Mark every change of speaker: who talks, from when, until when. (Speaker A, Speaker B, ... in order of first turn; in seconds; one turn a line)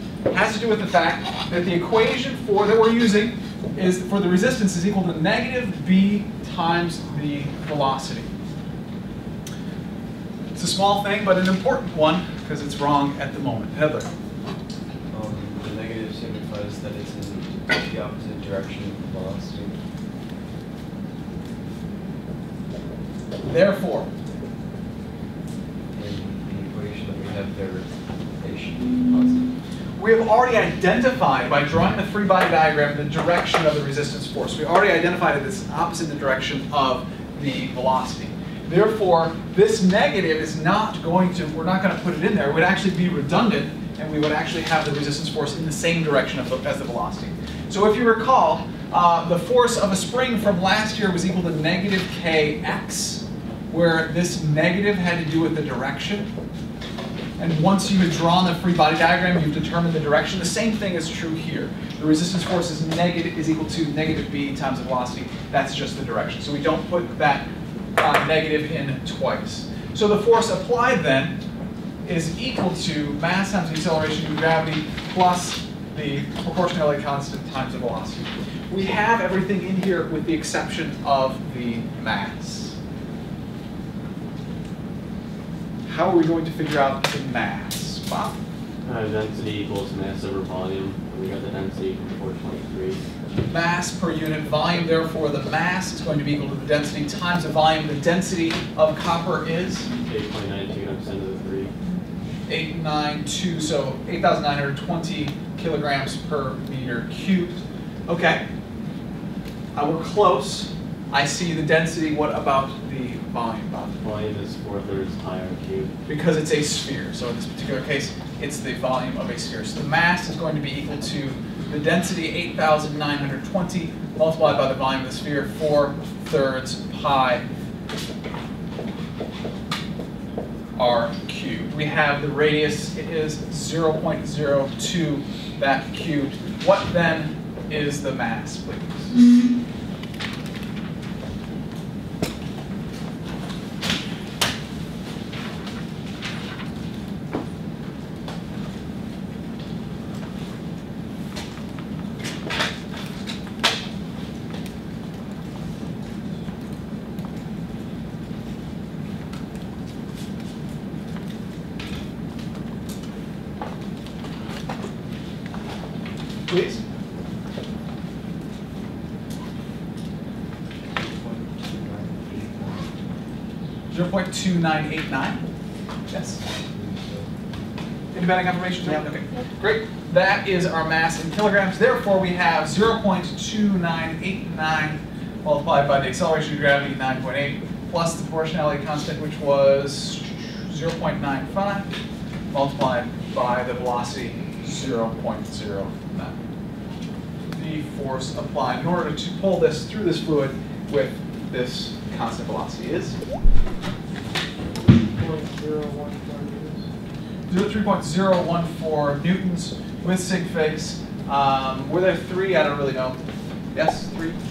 Speaker A: 0.3-8.3
Speaker A: 10.5-14.1
Speaker B: 15.1-19.8
Speaker A: 23.4-24.1
Speaker B: 25.9-29.6
Speaker A: 30.0-56.3
Speaker A: 57.4-71.4
Speaker A: 72.0-82.8
Speaker A: 85.8-88.4
Speaker C: 88.8-93.0
Speaker A: 93.5-99.9
Speaker C: 100.0-101.7
Speaker A: 102.5-108.4
Speaker A: 109.7-114.0
Speaker C: 113.9-115.9
Speaker A: 116.1-127.4
Speaker A: 130.8-139.1
Speaker A: 166.5-166.8
Speaker B: 170.9-172.9
Speaker A: 173.9-175.5
Speaker A: 176.1-176.4
Speaker B: 176.6-177.3
Speaker A: 178.1-191.9
Speaker A: 192.5-196.3
Speaker A: 197.5-203.2
Speaker A: 207.5-213.2
Speaker A: 213.7-214.4